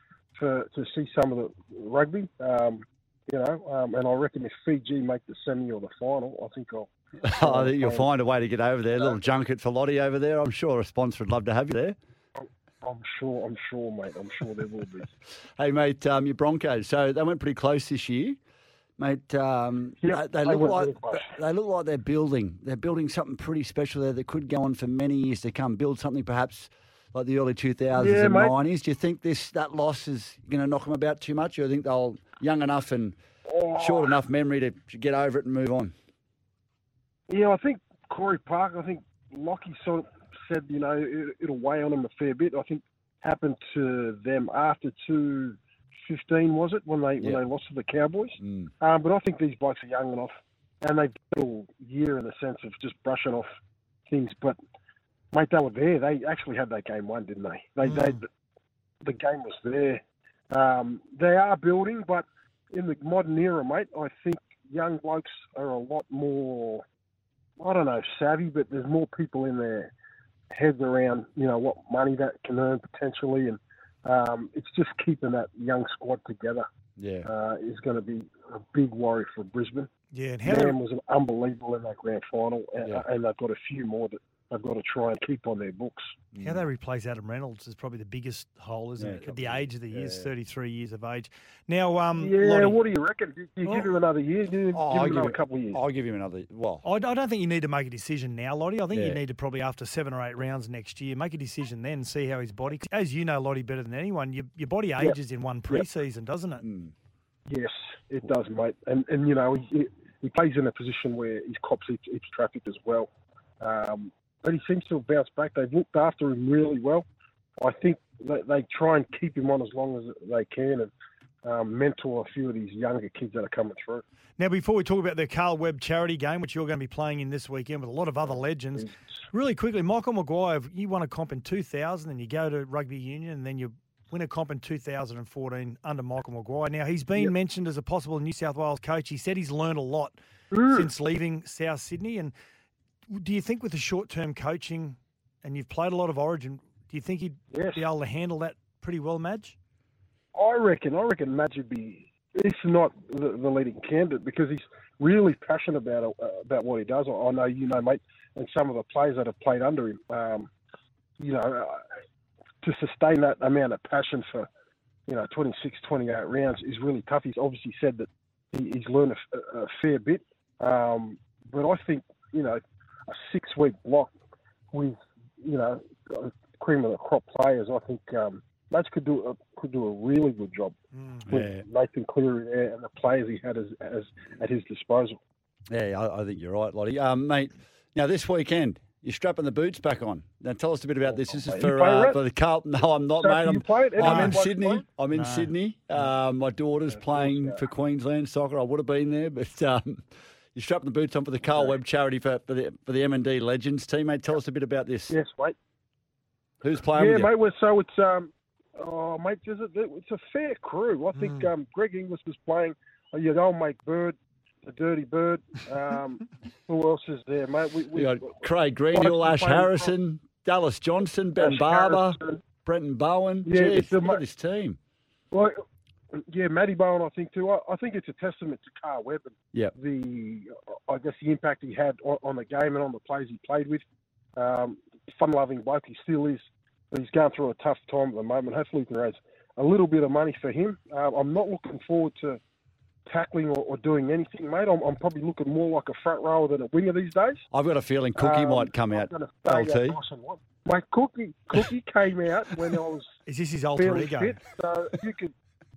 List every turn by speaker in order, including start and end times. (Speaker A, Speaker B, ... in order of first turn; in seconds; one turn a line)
Speaker A: 0.3-8.1
Speaker B: 7.2-12.0
Speaker A: 12.4-15.1
Speaker B: 15.6-18.4
Speaker B: 19.0-33.2
Speaker A: 20.0-21.3
Speaker A: 27.9-28.5
Speaker A: 33.5-34.1
Speaker B: 33.7-35.9
Speaker A: 37.3-53.5
Speaker B: 48.4-48.7
Speaker A: 54.1-54.6
Speaker A: 55.3-58.3
Speaker C: 57.8-58.2
Speaker A: 59.0-66.8
Speaker A: 67.6-69.9
Speaker A: 70.5-76.7
Speaker B: 77.0-77.3
Speaker A: 77.2-79.9
Speaker C: 80.1-80.8
Speaker A: 80.5-86.1
Speaker B: 86.3-86.6
Speaker C: 86.4-92.8
Speaker B: 89.0-90.3
Speaker A: 92.2-95.8
Speaker B: 94.7-96.8
Speaker C: 96.8-106.6
Speaker B: 98.9-99.2
Speaker B: 106.6-106.9
Speaker A: 107.5-113.1
Speaker A: 113.6-117.0
Speaker A: 117.6-120.9
Speaker A: 121.4-124.0
Speaker C: 124.4-140.2
Speaker A: 140.5-140.9
Speaker C: 140.7-142.3
Speaker C: 143.1-149.6
Speaker A: 147.5-147.8
Speaker A: 150.3-160.5
Speaker A: 161.2-161.8
Speaker A: 162.6-164.5
Speaker A: 165.1-174.1
Speaker A: 174.7-180.8
Speaker C: 180.9-181.3
Speaker B: 181.3-181.6
Speaker A: 181.3-185.2
Speaker B: 185.7-205.2
Speaker A: 191.4-192.2
Speaker A: 193.2-194.8
Speaker C: 194.0-194.4
Speaker C: 195.1-195.5
Speaker A: 196.9-197.6
Speaker A: 205.1-205.6
Speaker B: 206.6-207.3
Speaker A: 206.9-219.9
Speaker C: 211.2-211.5
Speaker B: 217.9-224.8
Speaker A: 221.4-222.4
Speaker A: 223.4-224.2
Speaker A: 225.3-225.6
Speaker A: 226.1-233.8
Speaker A: 234.3-242.4
Speaker A: 243.1-247.4
Speaker B: 247.5-250.0
Speaker A: 248.2-253.1
Speaker C: 253.3-254.3
Speaker A: 253.8-255.3